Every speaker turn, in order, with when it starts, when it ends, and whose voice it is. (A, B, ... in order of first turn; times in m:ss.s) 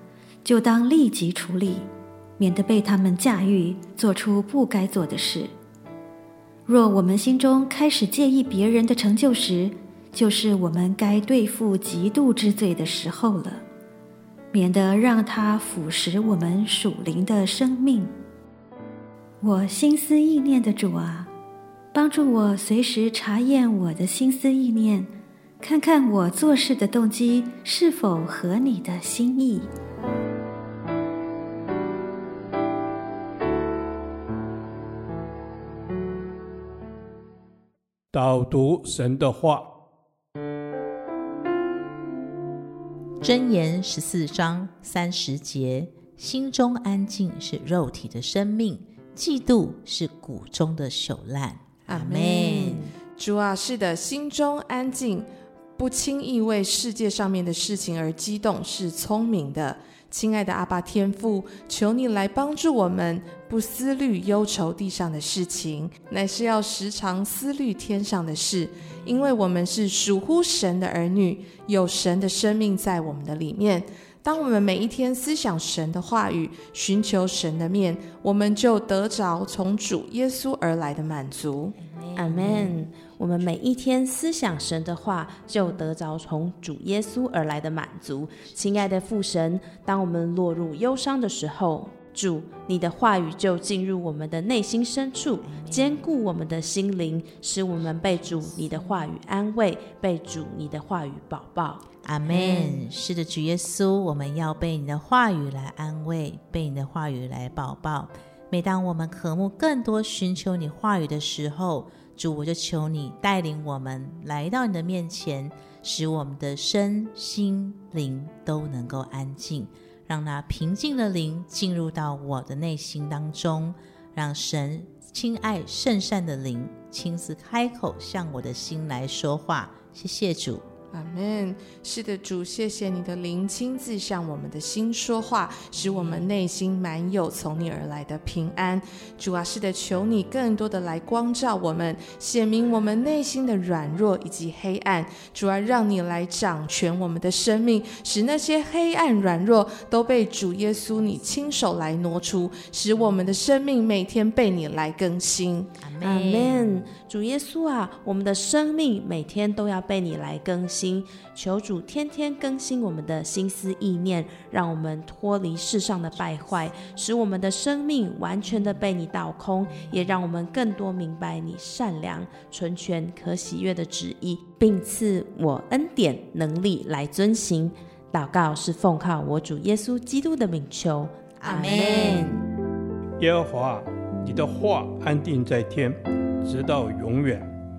0:00.4-0:05.5 A
0:06.6-0:13.6 A
0:14.5-0:18.1 A
0:19.4-0:21.3 A
0:21.9-0:29.7 A
0:38.1-0:39.7 B
0:43.2-0:52.9 C
0:51.8-1:21.7 D
1:21.8-1:23.1 C
1:22.1-1:42.8 E
1:35.4-1:36.0 C
1:38.2-1:39.0 C
1:42.0-2:10.6 C
2:10.9-2:35.7 D
2:15.8-2:16.3 C
2:35.8-2:36.9 C
2:36.0-3:02.4 E
2:46.1-2:46.9 C
2:49.7-2:50.2 C
3:01.4-3:02.3 C
3:03.2-3:07.5 B